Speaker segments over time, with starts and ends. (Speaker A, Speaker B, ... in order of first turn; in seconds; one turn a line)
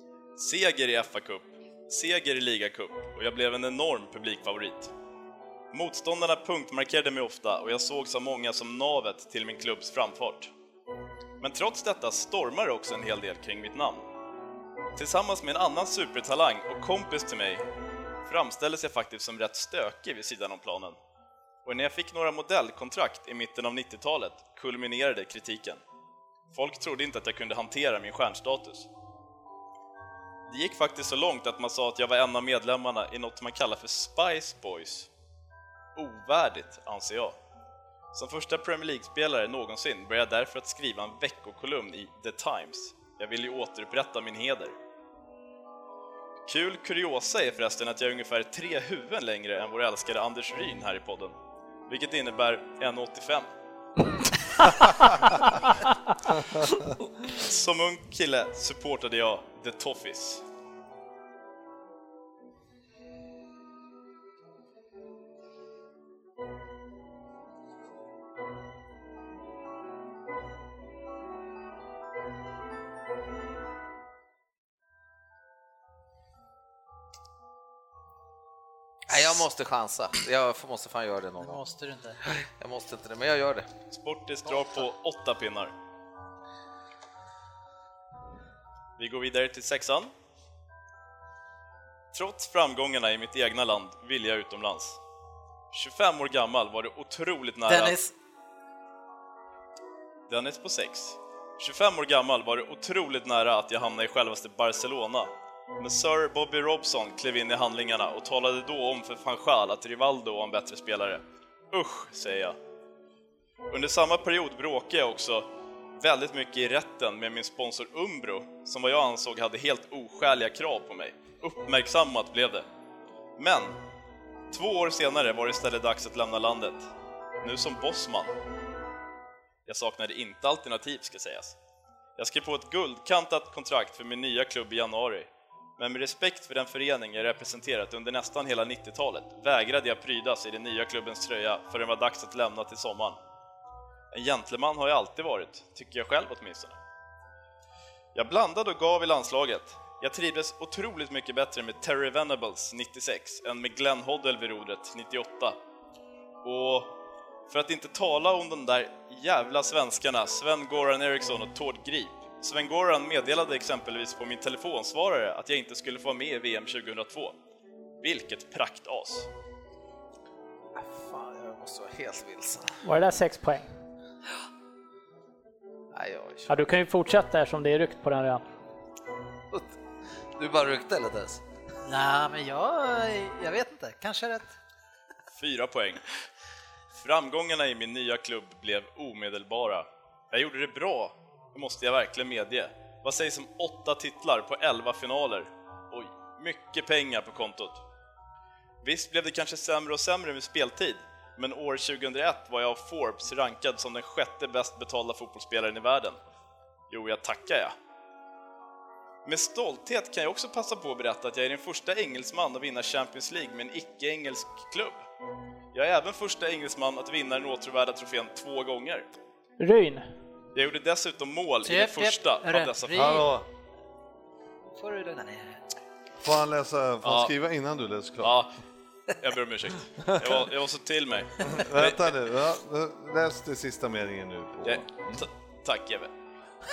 Speaker A: 0.3-4.9
Speaker A: 5.7-10.5
Speaker A: 11.4-14.0
Speaker A: 14.9-17.6
Speaker A: 18.2-21.0
Speaker A: 21.6-25.8
Speaker A: 26.5-28.9
Speaker A: 30.5-35.1
Speaker A: 35.9-37.4
Speaker A: 38.1-44.7
Speaker A: 46.5-51.3
Speaker A: 51.9-53.5
Speaker A: 57.3-60.4
Speaker B: 79.1-81.6
Speaker C: 81.4-82.2
Speaker B: 82.3-83.7
Speaker A: 83.9-85.7
Speaker A: 89.0-90.1
Speaker A: 92.1-95.0
Speaker A: 95.7-98.0
Speaker C: 97.7-98.1
Speaker A: 100.3-112.6
Speaker A: 113.7-115.5
Speaker A: 116.0-122.7
Speaker A: 123.4-123.8
Speaker A: 124.5-126.9
Speaker A: 127.4-128.3
Speaker A: 129.7-131.6
Speaker A: 132.2-143.2
Speaker A: 144.1-146.8
Speaker A: 148.1-155.6
Speaker A: 156.4-156.9
Speaker A: 157.5-167.3
Speaker A: 168.0-169.3
Speaker B: 170.7-172.8
Speaker D: 172.8-173.7
Speaker B: 175.9-176.5
Speaker D: 176.5-178.4
Speaker B: 180.3-181.4
Speaker C: 181.8-184.6
Speaker A: 185.3-186.0
Speaker A: 186.9-197.8
Speaker A: 198.8-206.2
Speaker A: 206.9-207.7
Speaker A: 209.2-215.0
Speaker A: 215.7-219.1
Speaker D: 219.6-220.1
Speaker A: 220.5-223.2
Speaker C: 221.6-223.3
Speaker E: 222.9-223.4
Speaker C: 224.8-225.6
Speaker E: 226.2-228.4
Speaker A: 227.0-227.3
Speaker A: 228.2-228.5
Speaker A: 229.2-232.1
Speaker E: 230.0-230.4
Speaker E: 231.5-235.3
Speaker A: 234.6-236.1